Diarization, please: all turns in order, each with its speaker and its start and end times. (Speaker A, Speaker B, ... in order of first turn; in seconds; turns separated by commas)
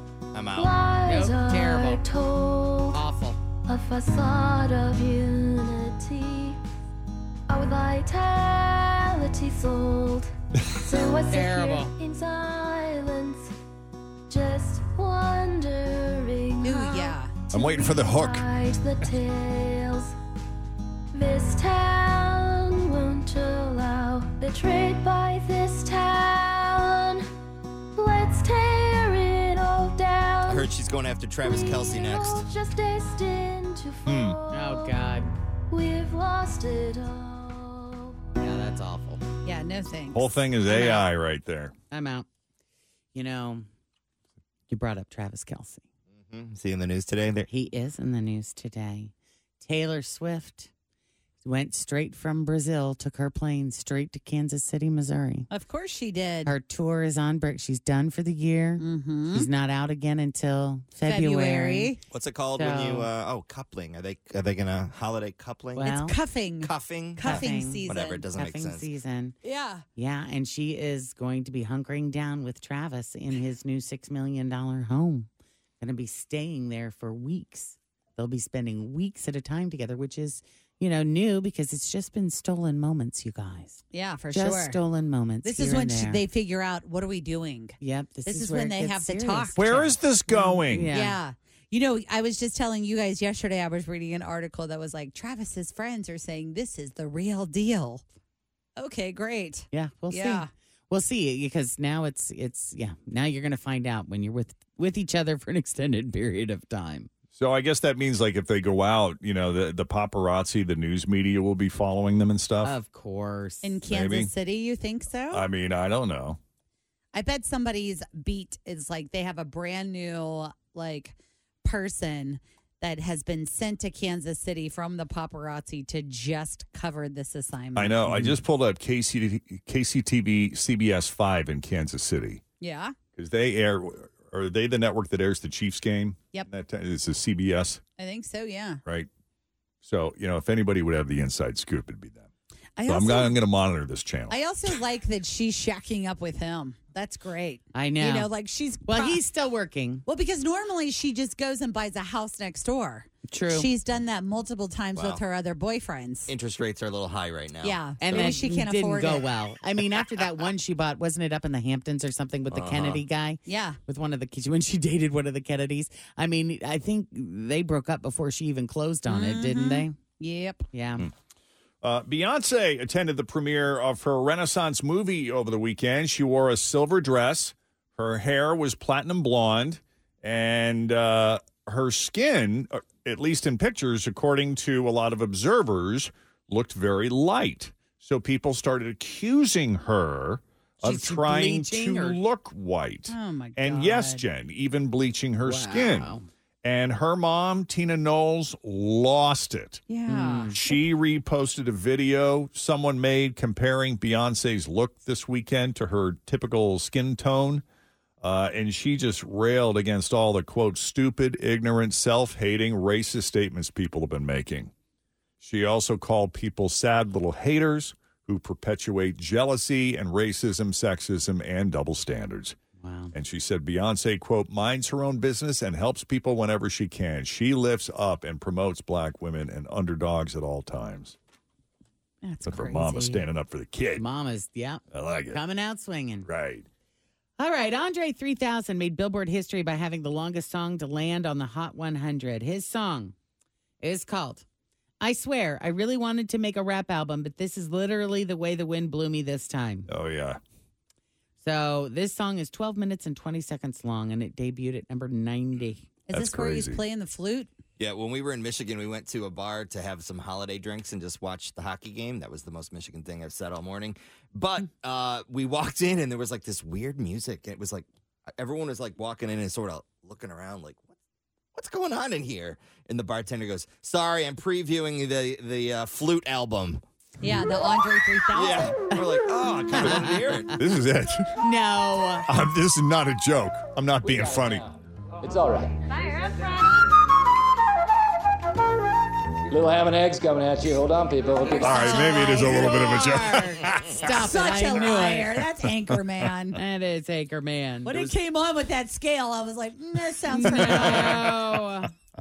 Speaker A: 0.3-0.8, Speaker B: 0.5-3.0, Speaker C: 1.1-2.0, Speaker C: 2.9-3.4, Speaker B: 3.7-6.6, Speaker B: 7.5-13.5, Speaker C: 10.9-11.9, Speaker B: 14.3-20.1, Speaker D: 16.6-17.5, Speaker E: 17.5-18.5, Speaker B: 21.1-27.2, Speaker B: 27.9-30.7, Speaker A: 30.5-32.5, Speaker B: 31.4-35.0, Speaker E: 34.1-34.4, Speaker C: 34.5-35.3, Speaker B: 35.7-38.1, Speaker C: 38.4-39.2, Speaker D: 39.5-40.8, Speaker E: 40.1-41.7, Speaker C: 41.9-42.3, Speaker C: 43.1-43.7, Speaker C: 44.7-45.9, Speaker A: 46.1-47.5, Speaker C: 47.5-50.7, Speaker C: 51.4-55.5, Speaker D: 55.5-56.5, Speaker C: 56.5-62.0, Speaker D: 58.8-59.5, Speaker D: 61.0-62.0, Speaker A: 62.1-66.0, Speaker C: 62.5-63.1, Speaker C: 65.8-66.2, Speaker D: 66.0-68.3, Speaker A: 66.6-68.9, Speaker C: 67.2-69.3, Speaker D: 69.4-69.8, Speaker C: 70.0-75.3, Speaker C: 75.8-86.2, Speaker D: 83.9-84.8, Speaker D: 85.4-89.6, Speaker C: 87.8-91.2, Speaker E: 89.6-90.9, Speaker D: 90.9-98.0, Speaker D: 98.8-100.5, Speaker C: 99.7-107.1, Speaker E: 107.3-112.8, Speaker C: 112.6-113.8, Speaker D: 113.6-115.5, Speaker E: 113.9-114.3, Speaker E: 115.3-116.4, Speaker D: 117.1-128.3, Speaker E: 127.8-132.4, Speaker D: 132.6-132.9, Speaker E: 133.2-137.8, Speaker D: 138.0-138.8, Speaker E: 139.8-142.3, Speaker D: 142.8-143.3, Speaker E: 142.9-144.4, Speaker D: 144.3-149.2, Speaker C: 147.8-148.3, Speaker C: 148.9-150.1, Speaker D: 150.1-156.3, Speaker C: 153.3-153.7, Speaker A: 154.9-155.2, Speaker A: 156.3-158.5, Speaker D: 157.6-159.3, Speaker C: 158.0-169.9, Speaker A: 162.5-163.0, Speaker D: 163.5-163.8, Speaker D: 169.1-170.6, Speaker C: 170.7-171.1, Speaker E: 171.8-199.8, Speaker C: 190.8-192.2, Speaker D: 193.1-194.2, Speaker C: 195.4-196.3, Speaker D: 199.9-200.6, Speaker C: 200.1-200.6, Speaker E: 200.6-207.6, Speaker E: 208.2-214.7, Speaker E: 215.4-222.6, Speaker C: 222.8-223.1, Speaker E: 223.1-231.2, Speaker D: 232.2-233.2, Speaker E: 232.5-234.1, Speaker C: 233.9-236.3, Speaker E: 234.9-235.4, Speaker E: 236.2-236.7, Speaker C: 237.4-243.1, Speaker C: 243.8-244.4, Speaker C: 245.0-249.9, Speaker E: 249.9-250.4, Speaker C: 251.4-255.9, Speaker D: 256.1-257.5, Speaker E: 256.1-256.8, Speaker A: 257.8-270.9, Speaker A: 271.6-276.8, Speaker D: 277.2-278.8, Speaker A: 278.3-280.6, Speaker C: 279.8-280.4, Speaker E: 280.5-281.4, Speaker C: 281.4-282.3, Speaker E: 282.3-284.6, Speaker F: 284.0-285.8, Speaker F: 289.5-292.0, Speaker D: 291.4-292.8, Speaker E: 291.5-294.2, Speaker C: 291.9-295.3, Speaker D: 294.2-296.6, Speaker C: 296.5-298.1, Speaker D: 297.9-301.3, Speaker C: 300.3-301.9, Speaker E: 300.7-301.1